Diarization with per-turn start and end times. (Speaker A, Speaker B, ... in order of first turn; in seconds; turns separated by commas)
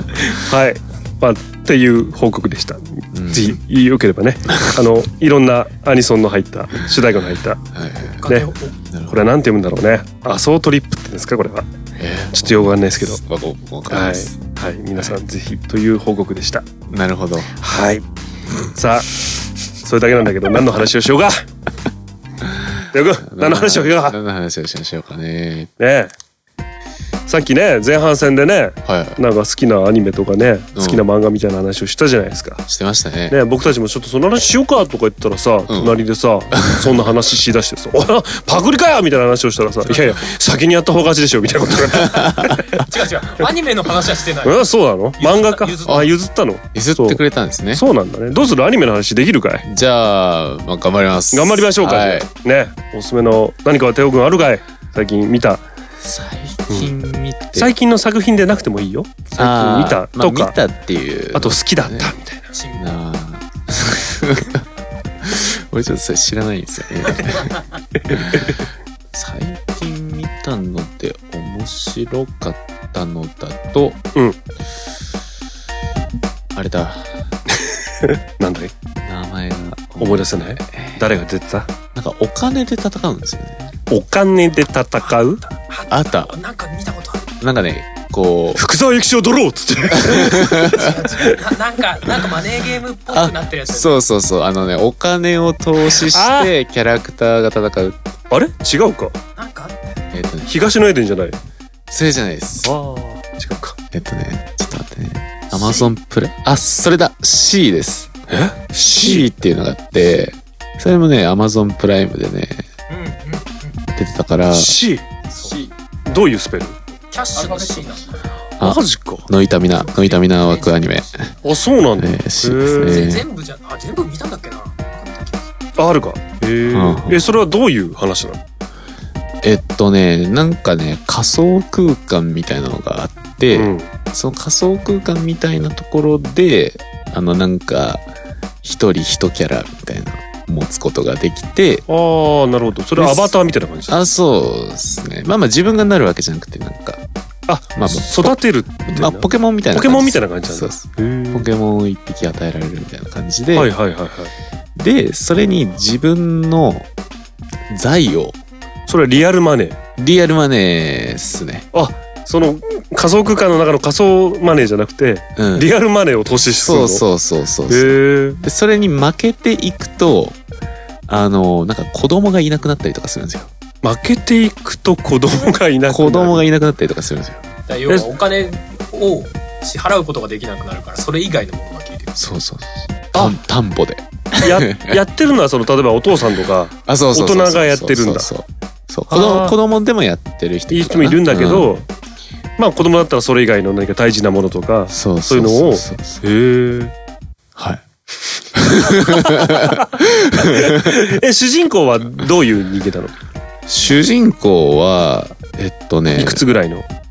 Speaker A: 0.4-7.6, Speaker B: 3.1-3.6, Speaker B: 7.7-8.3, Speaker C: 8.1-8.8, Speaker A: 8.2-8.5, Speaker B: 8.9-9.3, Speaker A: 9.1-11.7, Speaker B: 12.0-14.4, Speaker A: 12.3-13.2, Speaker A: 13.9-16.6, Speaker B: 16.9-17.5, Speaker A: 17.6-18.0, Speaker A: 18.7-19.1, Speaker A: 19.8-21.4, Speaker A: 22.9-24.1, Speaker B: 23.2-25.7, Speaker A: 25.8-26.1, Speaker A: 27.3-32.6, Speaker B: 28.8-29.2, Speaker B: 30.7-31.0, Speaker B: 32.6-33.4, Speaker A: 33.3-42.5, Speaker B: 35.7-36.0, Speaker B: 36.5-36.9, Speaker B: 42.1-42.4, Speaker C: 42.8-46.1, Speaker A: 44.4-47.2, Speaker B: 45.8-46.1, Speaker B: 46.7-47.8, Speaker A: 47.7-49.6, Speaker B: 49.6-52.3, Speaker A: 51.3-55.6, Speaker B: 56.0-57.7, Speaker A: 56.7-56.9, Speaker A: 57.5-60.5, Speaker B: 59.4-62.1, Speaker A: 61.3-62.5, Speaker C: 62.5-63.0, Speaker B: 62.7-64.6, Speaker B: 65.2-67.6, Speaker B: 68.1-68.6, Speaker B: 69.1-74.0, Speaker B: 76.5-77.1, Speaker A: 78.4-78.7, Speaker B: 79.0-81.1, Speaker A: 80.0-81.7, Speaker B: 81.9-83.7, Speaker A: 83.9-85.4, Speaker C: 85.0-87.4, Speaker B: 85.9-86.3, Speaker B: 87.4-88.6, Speaker A: 88.5-91.5, Speaker B: 90.0-90.9, Speaker C: 90.8-94.0, Speaker B: 93.1-98.0, Speaker A: 96.0-96.5, Speaker A: 98.3-99.2, Speaker C: 99.4-100.0, Speaker B: 100.1-100.5, Speaker A: 100.5-101.4, Speaker B: 101.9-102.7, Speaker A: 102.6-103.7, Speaker B: 103.9-108.1, Speaker C: 105.5-105.9, Speaker A: 108.3-109.3, Speaker B: 108.8-112.7, Speaker C: 112.9-113.7, Speaker B: 114.0-114.8, Speaker A: 114.5-115.0, Speaker C: 115.3-115.7, Speaker A: 116.1-116.7, Speaker C: 117.1-118.2, Speaker A: 118.6-119.2, Speaker B: 118.6-121.3, Speaker C: 119.7-120.8, Speaker A: 121.4-123.0, Speaker B: 122.0-123.2, Speaker C: 122.8-125.4, Speaker A: 125.8-128.4, Speaker B: 126.7-127.2, Speaker B: 129.4-138.0, Speaker A: 133.5-133.9, Speaker B: 138.6-141.8, Speaker A: 141.9-144.0, Speaker B: 142.9-143.3, Speaker B: 143.9-147.0, Speaker A: 147.5-151.5, Speaker B: 147.7-153.7, Speaker A: 153.5-154.3, Speaker B: 154.8-156.9, Speaker B: 157.7-158.3, Speaker A: 158.9-159.8, Speaker B: 160.0-161.7, Speaker A: 161.7-167.0, Speaker B: 165.3-165.7, Speaker B: 166.6-170.4, Speaker A: 167.7-168.4, Speaker B: 171.1-173.5, Speaker A: 173.8-176.4, Speaker B: 175.9-177.4, Speaker C: 177.7-182.1, Speaker B: 182.2-185.0, Speaker A: 184.4-188.3, Speaker B: 186.8-191.8, Speaker A: 189.1-189.5, Speaker A: 190.7-191.8, Speaker A: 192.6-196.9, Speaker B: 194.9-196.2, Speaker B: 197.6-197.8, Speaker B: 198.5-201.0, Speaker A: 199.2-199.6, Speaker A: 200.6-203.1, Speaker B: 203.7-206.4, Speaker A: 206.2-206.8